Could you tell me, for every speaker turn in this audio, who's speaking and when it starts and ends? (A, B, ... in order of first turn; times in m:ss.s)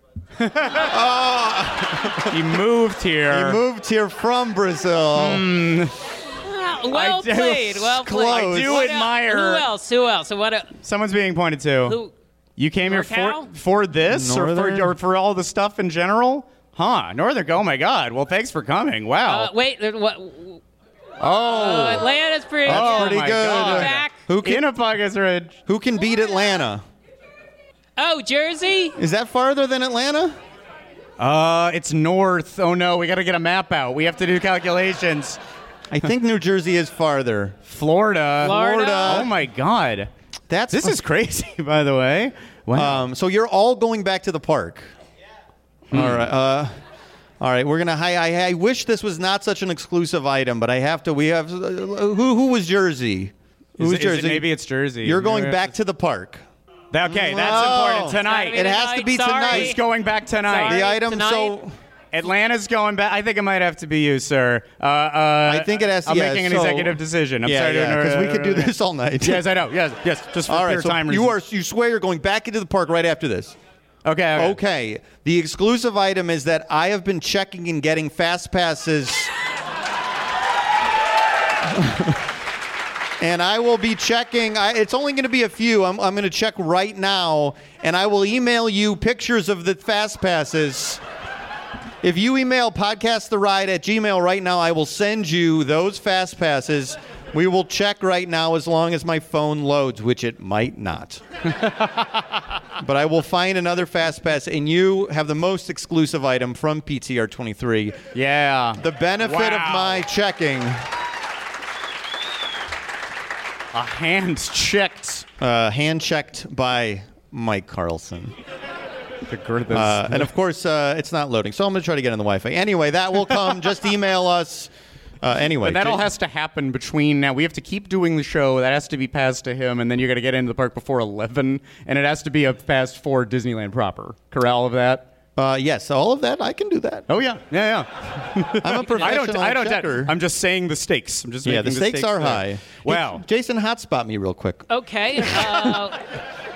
0:00.4-0:00.9 A
0:00.8-0:02.6 B
0:02.3-0:03.6 A
0:03.3-0:05.4 B
0:05.1-0:05.9 A
0:06.4-0:10.8 C
0:06.9-0:09.6 A
0:08.0-0:08.8 B
0:10.8-0:12.0 A
0:11.8-0:12.1 C
0:12.6-0:19.5 A
0:12.8-0:13.5 C
0:14.1-0:14.9 B
0:19.2-0:20.6 C
0:21.2-0:22.1 A
0:21.4-0:24.2 C
0:22.6-0:24.6 B
0:22.6-0:25.6 A
0:25.6-0:26.8 B
0:28.0-0:29.0 C
0:29.0-0:30.4 B
0:31.2-0:35.4 A
0:35.9-0:37.6 B
0:37.6-0:40.1 A
0:38.4-0:39.3 C
0:38.4-0:39.3 B
0:40.5-0:41.0 B
0:40.7-0:43.0 A
0:42.7-0:44.9 B
0:45.9-0:46.2 A
0:45.9-0:46.7 B
0:47.4-0:56.4 B
0:53.8-0:55.7 A
0:56.9-0:58.6 A
0:57.0-0:59.8 B
0:58.0-0:59.8 C
0:59.5-1:00.8 A
1:00.4-1:01.5 C
1:00.6-1:01.8 B
1:02.1-1:11.4 A
1:05.4-1:09.5 B
1:10.5-1:13.6 B
1:14.0-1:14.6 A
1:14.3-1:19.3 B
1:21.6-1:22.2 B
1:23.2-1:31.0 B
1:32.0-1:41.2 B
1:41.5-1:42.2 A
1:42.8-1:48.0 B
1:48.1-1:50.0 A
1:48.8-1:50.9 B
1:53.7-1:55.2 A
1:55.4-1:58.4 B
1:59.3-2:00.3 A
1:59.7-2:04.7 B
2:05.2-2:06.0 B
2:05.6-2:15.1 A
2:15.4-2:17.1 B
2:17.1-2:23.2 A
2:18.6-2:20.2 B
2:21.4-2:24.7 B
2:24.7-2:26.1 C